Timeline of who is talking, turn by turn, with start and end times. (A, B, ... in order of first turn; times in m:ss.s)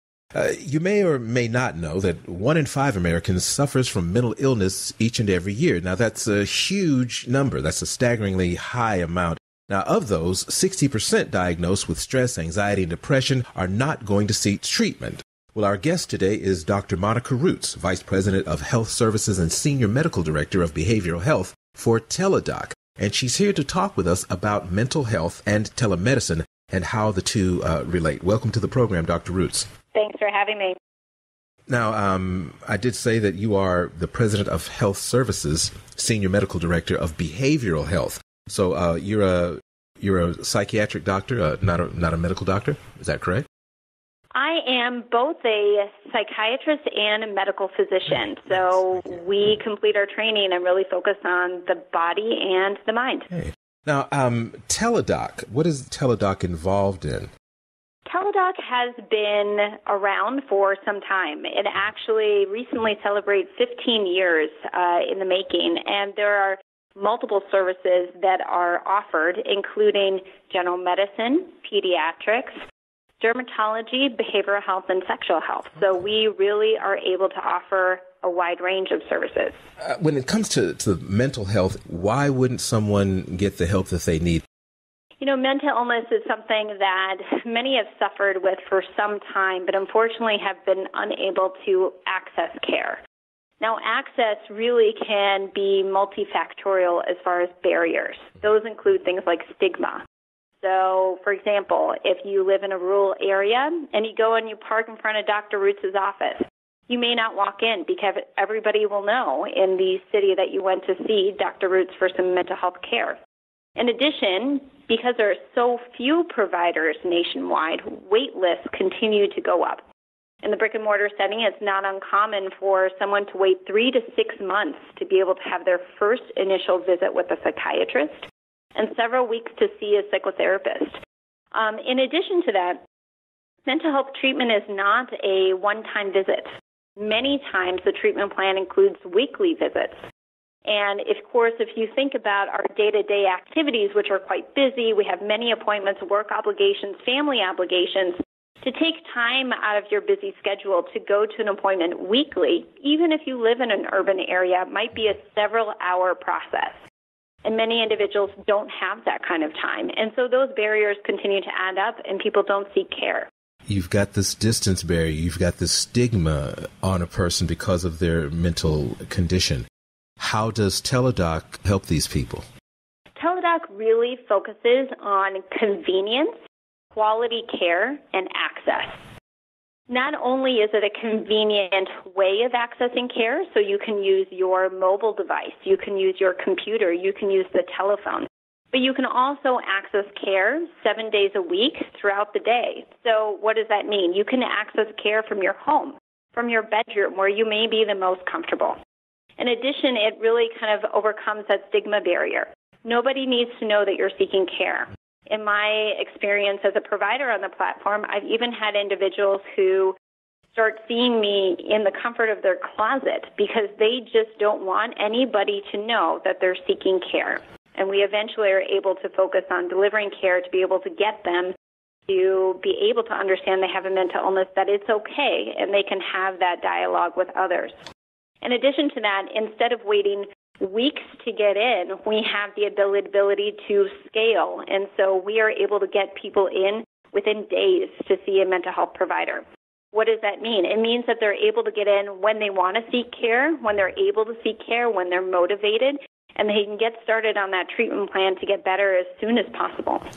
0:00.3-0:29.7 A
0:29.9-0:30.8 B
0:31.7-0:43.4 A
0:44.3-0:53.3 B
0:53.3-0:57.3 A
0:58.1-1:12.6 B
1:13.2-1:19.6 B
1:19.8-1:24.4 A
1:25.2-1:33.0 B
1:33.6-1:40.0 B
1:40.6-1:53.2 B
1:53.8-1:59.8 B
2:00.4-2:11.0 B
2:11.5-2:12.8 B
2:13.6-2:20.0 B
2:20.6-2:36.8 B
2:37.4-2:43.3 B
2:43.7-2:49.6 A
2:50.2-2:52.4 A
2:53.2-2:56.4 B
2:56.9-2:59.0 B
2:59.9-3:18.8 B
3:19.4-3:30.0 B
3:30.5-3:41.5 B
3:42.1-3:47.8 B
3:48.4-4:10.0 B